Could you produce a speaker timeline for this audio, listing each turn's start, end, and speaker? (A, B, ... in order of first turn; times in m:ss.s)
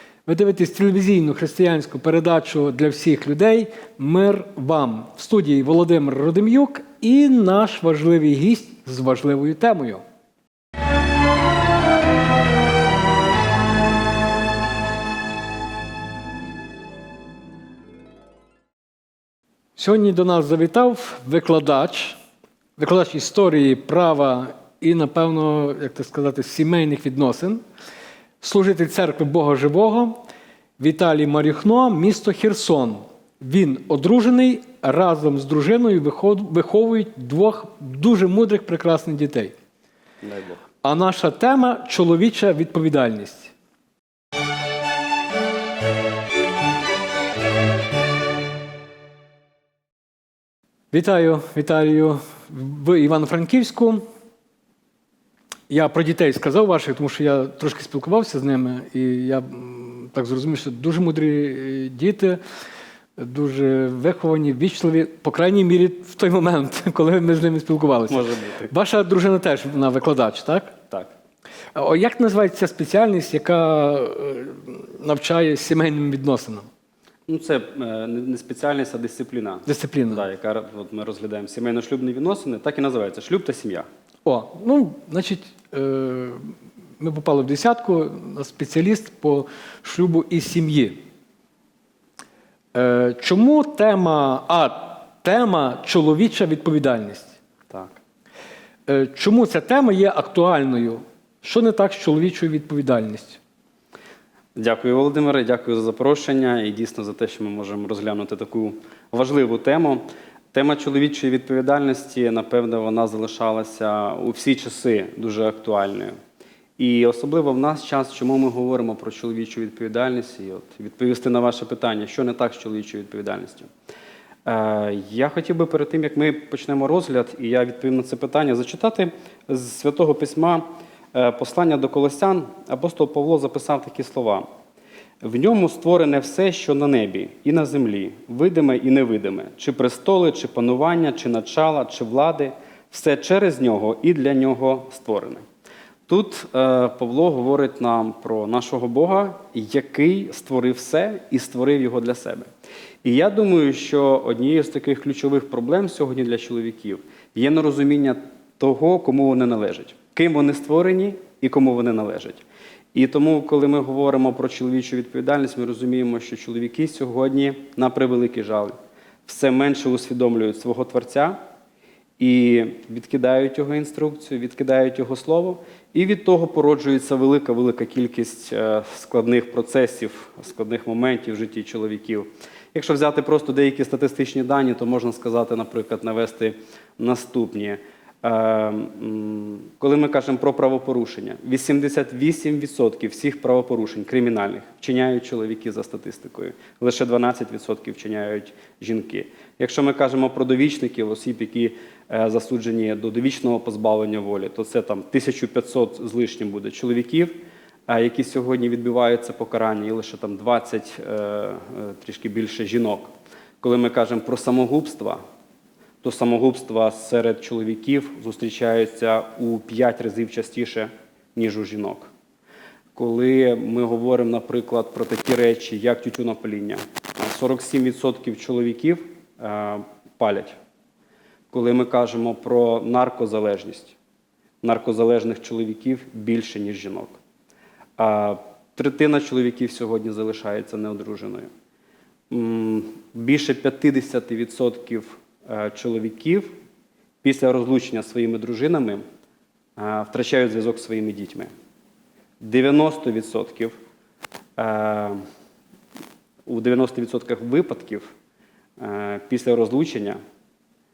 0:00.2-0:10.0 A
0:19.8-0:22.2 A
0:22.8-0:27.6 A
0:28.4-0:30.2 A
0:30.8-0:39.5 A
0:40.2-0:40.6 B
0:40.8-0:43.5 A
0:50.9-0:54.0 A
0:55.7-1:02.4 A
1:03.2-1:10.7 A
1:08.1-1:08.7 B
1:11.7-1:16.7 A
1:17.3-1:23.9 B
1:19.6-1:20.2 A
1:24.2-1:31.0 A
1:32.7-1:37.3 A
1:37.7-1:38.0 B
1:38.9-1:43.4 A
1:44.6-1:56.1 B
1:56.8-2:03.7 B
2:04.4-2:14.5 B
2:15.2-2:25.4 B
2:26.1-2:32.4 B
2:33.0-2:51.4 B
2:52.2-3:35.2 B
3:36.0-3:42.1 B
3:42.9-3:50.6 B
3:51.5-3:54.0 B
3:54.6-3:57.2 B
3:58.0-4:01.5 B
4:02.3-4:06.5 B
4:07.2-4:09.0 B
4:09.8-4:11.5 B
4:12.4-4:13.8 B
4:14.6-4:15.2 B
4:16.4-4:18.1 B
4:18.8-4:20.2 B